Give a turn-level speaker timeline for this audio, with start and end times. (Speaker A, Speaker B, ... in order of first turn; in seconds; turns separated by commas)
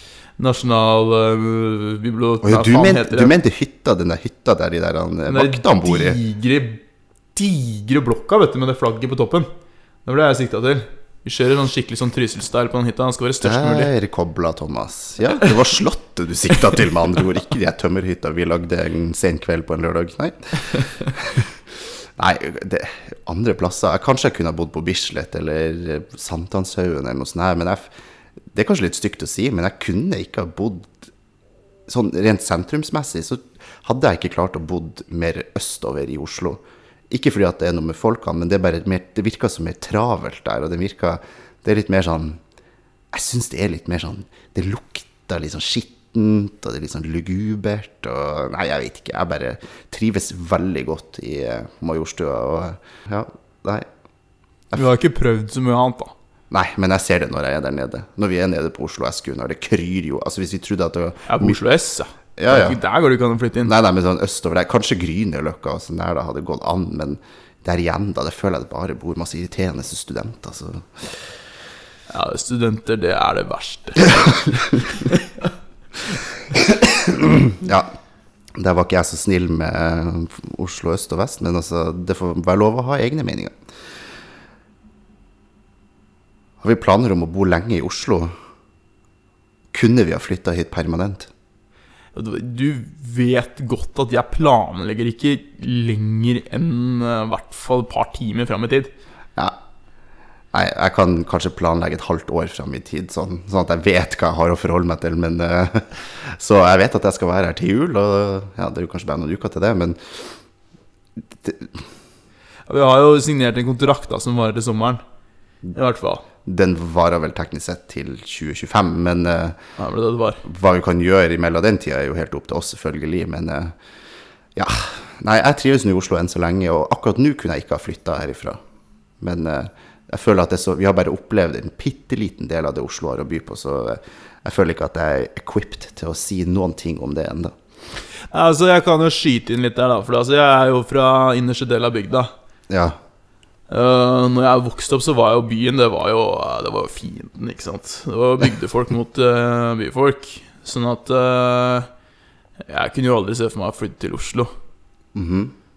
Speaker A: 0.4-3.3, Speaker B: 2.4-6.2, Speaker A: 5.2-6.8, Speaker A: 7.3-9.5, Speaker A: 10.0-13.9, Speaker B: 13.4-27.9, Speaker B: 28.5-31.1, Speaker B: 31.9-42.4, Speaker B: 43.1-53.9, Speaker A: 54.7-56.1, Speaker B: 56.5-61.6, Speaker A: 61.3-63.7, Speaker B: 62.4-62.8, Speaker B: 63.6-71.2, Speaker A: 72.1-75.3, Speaker B: 74.1-74.6, Speaker B: 76.5-77.9, Speaker B: 78.5-83.6, Speaker B: 86.6-88.3, Speaker B: 89.7-91.3, Speaker A: 92.1-98.9, Speaker B: 100.5-110.4, Speaker B: 111.3-111.8, Speaker A: 112.7-115.0, Speaker A: 115.7-116.2, Speaker B: 116.4-119.6, Speaker A: 119.8-120.4, Speaker B: 120.4-123.8, Speaker B: 124.5-128.6, Speaker B: 129.2-137.5, Speaker A: 138.3-142.3, Speaker B: 142.7-143.0, Speaker A: 143.7-151.9, Speaker A: 152.7-154.5, Speaker B: 155.1-155.5